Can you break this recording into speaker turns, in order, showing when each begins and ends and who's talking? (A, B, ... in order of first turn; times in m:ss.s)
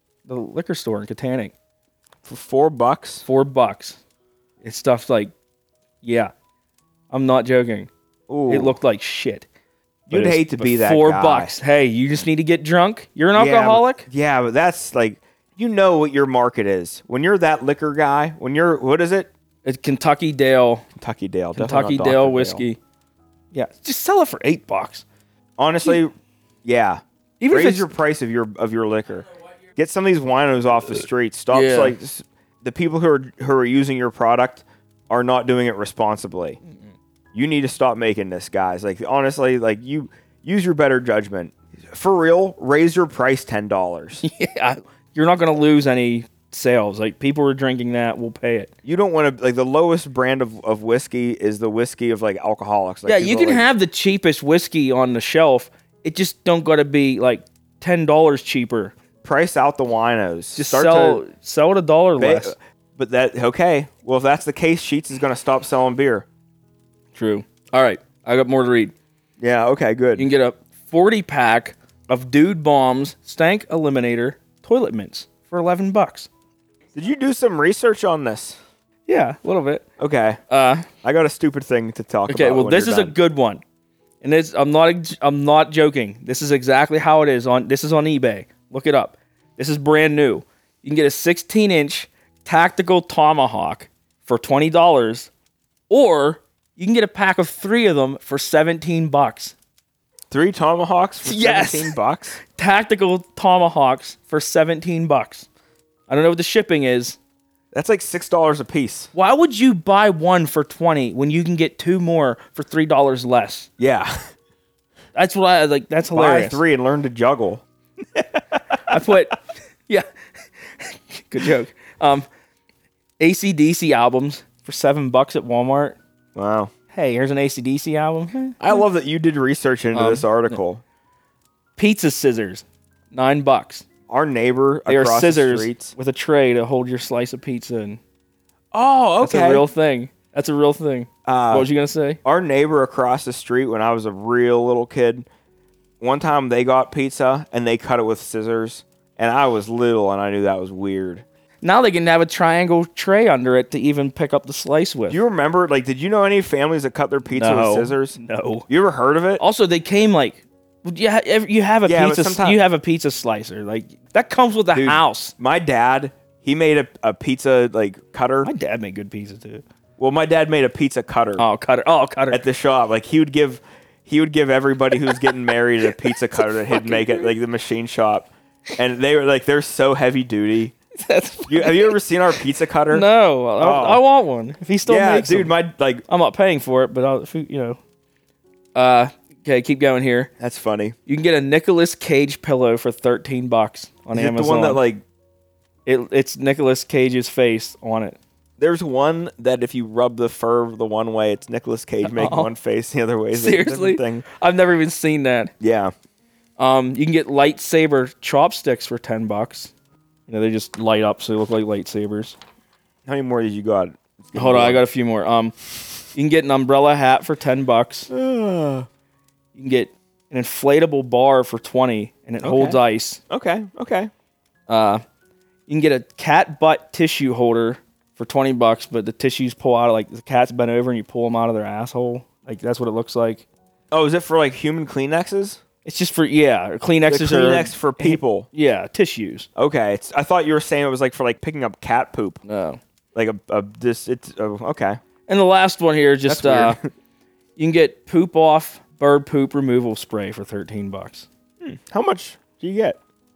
0:00.3-0:01.5 A
0:02.2-0:03.2 B
0:03.2-0:04.0 A
0:04.6-0:05.3 A
0:06.0-0:06.3 A
0:07.1-0:07.9 A
0:08.3-0:08.8 B
0:08.5-0:09.4 A
0:10.1-0:11.6 B
0:10.1-0:14.1 A
0:13.3-0:19.3 B
0:19.6-0:20.8 A
0:21.0-0:22.6 B
0:21.6-0:22.8 A
0:23.5-0:25.0 A
0:25.6-0:36.6 B
0:27.4-0:27.9 A
0:31.5-0:32.0 A
0:37.3-0:44.2 B
0:44.2-0:48.7 A
0:48.8-0:53.7 B
0:53.0-0:58.9 A
0:59.2-1:01.2 B
1:00.6-1:02.5 A
1:02.2-1:06.2 B
1:07.1-1:08.9 A
1:09.4-1:10.3 B
1:10.2-1:16.3 A
1:16.9-1:18.6 B
1:19.1-1:19.8 A
1:20.0-1:20.4 B
1:20.5-1:20.9 A
1:21.0-1:23.2 B
1:22.3-1:23.6 A
1:24.2-1:35.3 A
1:35.9-1:39.5 A
1:40.3-1:42.4 B
1:41.2-1:45.5 A
1:46.1-1:47.2 A
1:47.7-1:49.1 B
1:49.1-1:53.7 A
1:53.8-1:54.2 B
1:55.1-1:56.6 A
1:56.1-1:57.6 B
1:58.2-1:59.0 B
1:58.9-2:00.0 A
2:00.8-2:02.3 A
2:03.2-2:06.0 A
2:06.3-2:06.7 B
2:06.9-2:08.6 A
2:08.6-2:10.8 B
2:09.9-2:10.6 A
2:11.8-2:13.8 A
2:14.1-2:15.9 B
2:14.9-2:18.0 A
2:18.7-2:19.7 B
2:19.2-2:22.2 A
2:21.2-2:21.7 B
2:22.2-2:25.3 B
2:26.0-2:31.2 B
2:31.6-2:35.2 A
2:35.1-2:38.2 B
2:37.3-2:38.7 A
2:38.7-2:39.4 B
2:39.4-2:45.3 A
2:41.8-2:42.6 B
2:44.7-2:48.5 B
2:48.4-2:49.6 A
2:50.0-2:51.4 B
2:51.4-2:52.4 A
2:52.3-3:00.7 B
2:55.0-2:55.3 A
2:56.0-2:57.3 A
3:01.0-3:02.0 A
3:01.5-3:04.0 B
3:02.9-3:05.5 A
3:04.8-3:06.0 B
3:06.1-3:07.8 A
3:08.7-3:10.3 A
3:10.4-3:11.0 B
3:11.1-3:14.8 A
3:14.1-3:15.0 B
3:15.8-3:18.2 A
3:18.6-3:24.2 B
3:22.0-3:22.5 A
3:23.3-3:25.5 A
3:25.6-3:25.9 B
3:26.6-3:29.7 A
3:30.3-3:32.4 A
3:33.0-3:34.8 B
3:34.3-3:35.5 A
3:36.1-3:38.1 A
3:38.1-3:38.9 B
3:39.5-3:43.2 A
3:42.4-3:44.1 B
3:44.7-3:45.0 A
3:45.7-3:53.4 A
3:53.9-3:55.6 B
3:55.8-3:59.5 A
3:57.1-3:58.5 B
3:59.6-4:02.4 B
4:02.4-4:02.8 A
4:03.1-4:05.0 B
4:05.3-4:06.8 A
4:06.3-4:06.9 B
4:07.6-4:11.3 A
4:11.6-4:13.0 B